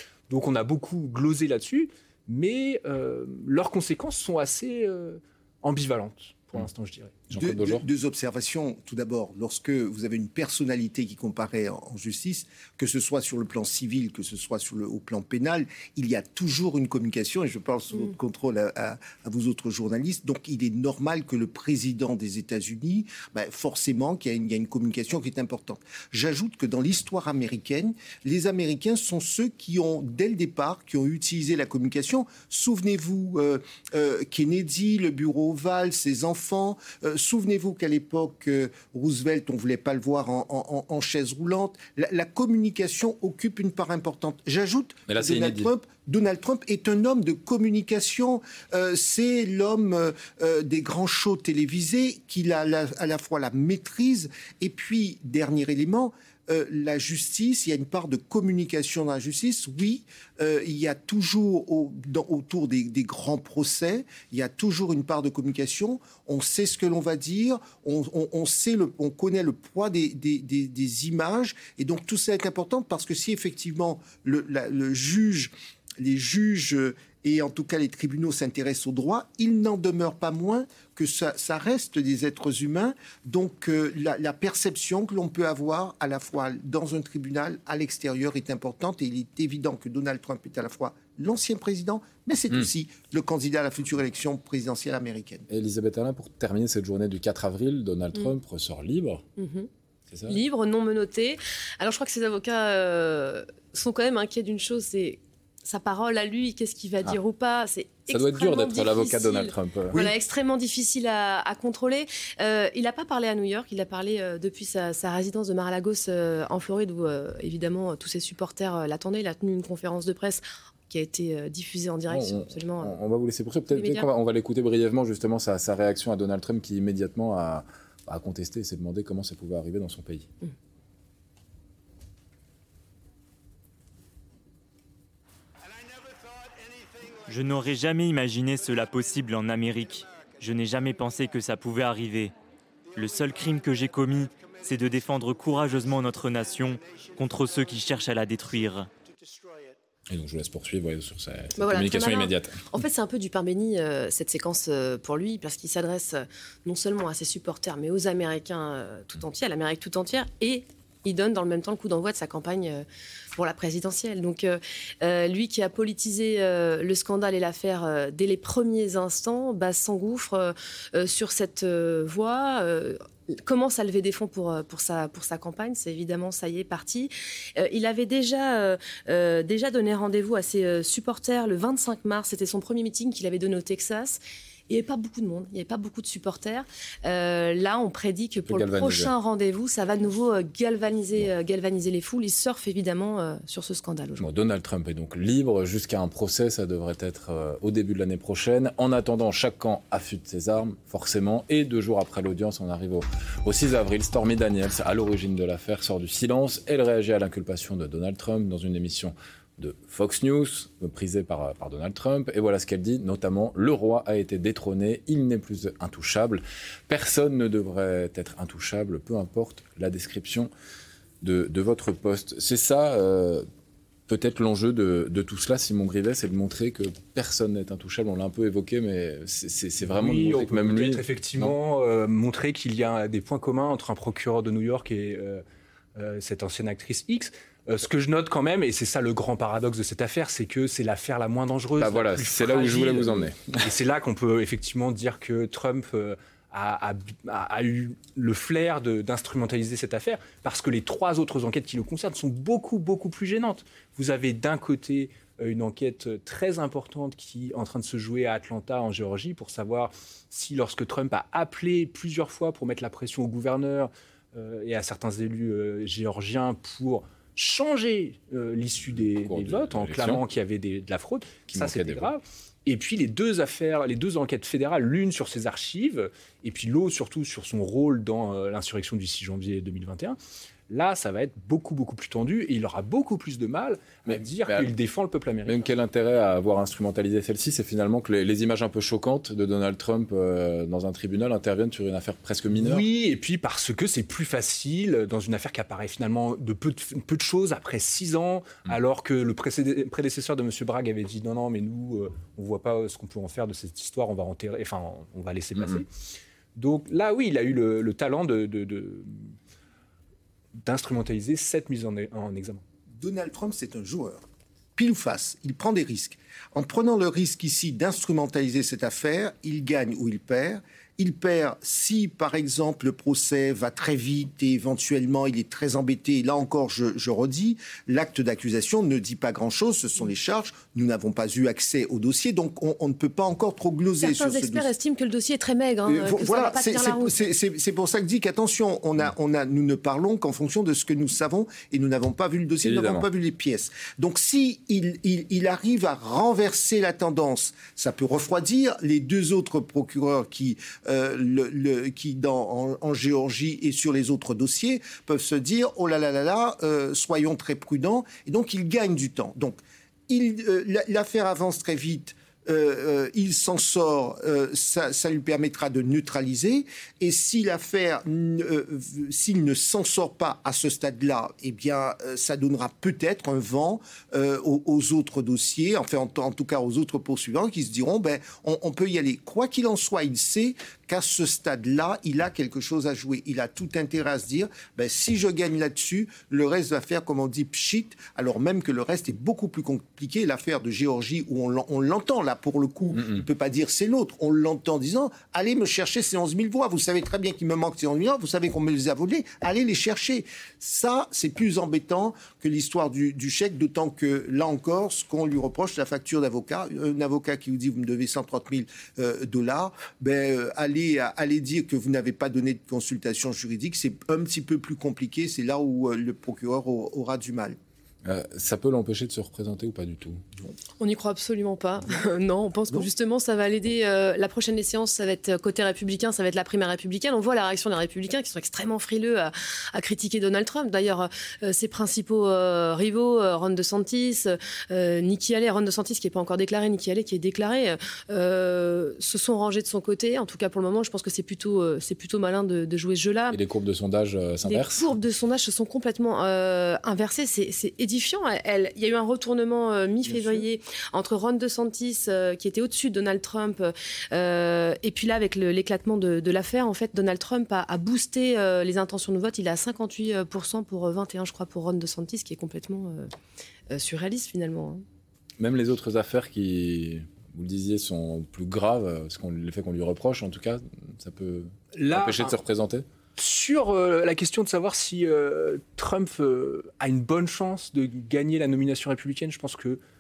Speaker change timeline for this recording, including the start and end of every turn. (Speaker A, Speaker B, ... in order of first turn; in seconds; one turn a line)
Speaker A: 0.3-7.2
Speaker B: 7.3-7.8
Speaker C: 7.3-95.4
Speaker B: 45.1-45.7
Speaker B: 95.5-99.2
Speaker D: 99.4-99.7
Speaker B: 100.1-100.4
Speaker D: 100.3-123.0
Speaker B: 108.1-110.0
Speaker B: 122.1-130.3
Speaker D: 123.7-124.1
Speaker E: 137.3-142.3
Speaker E: 142.9-148.9
Speaker B: 150.1-152.5
Speaker D: 151.6-184.2
Speaker D: 184.7-194.3
Speaker B: 188.4-189.1
Speaker B: 194.2-220.5
Speaker B: 221.2-223.4
Speaker B: 224.1-231.6
Speaker A: 229.8-235.4
Speaker A: 235.9-280.2
Speaker B: 241.8-243.7
Speaker B: 268.9-270.2
Speaker B: 271.5-272.1
Speaker A: 280.7-285.6
Speaker B: 284.1-284.7
Speaker B: 285.4-292.9
Speaker A: 292.5-305.9
Speaker B: 305.6-305.8
Speaker A: 306.6-309.3
Speaker A: 310.6-312.6
Speaker C: 312.9-314.2
Speaker C: 314.8-334.7
Speaker D: 334.0-337.1
Speaker C: 335.9-417.6
Speaker B: 342.6-343.1
Speaker B: 418.0-420.2
Speaker D: 420.8-443.4
Speaker B: 443.3-444.9
Speaker D: 444.4-463.1
Speaker D: 463.7-464.8
Speaker B: 465.4-472.8
Speaker A: 471.7-472.4
Speaker A: 473.2-479.8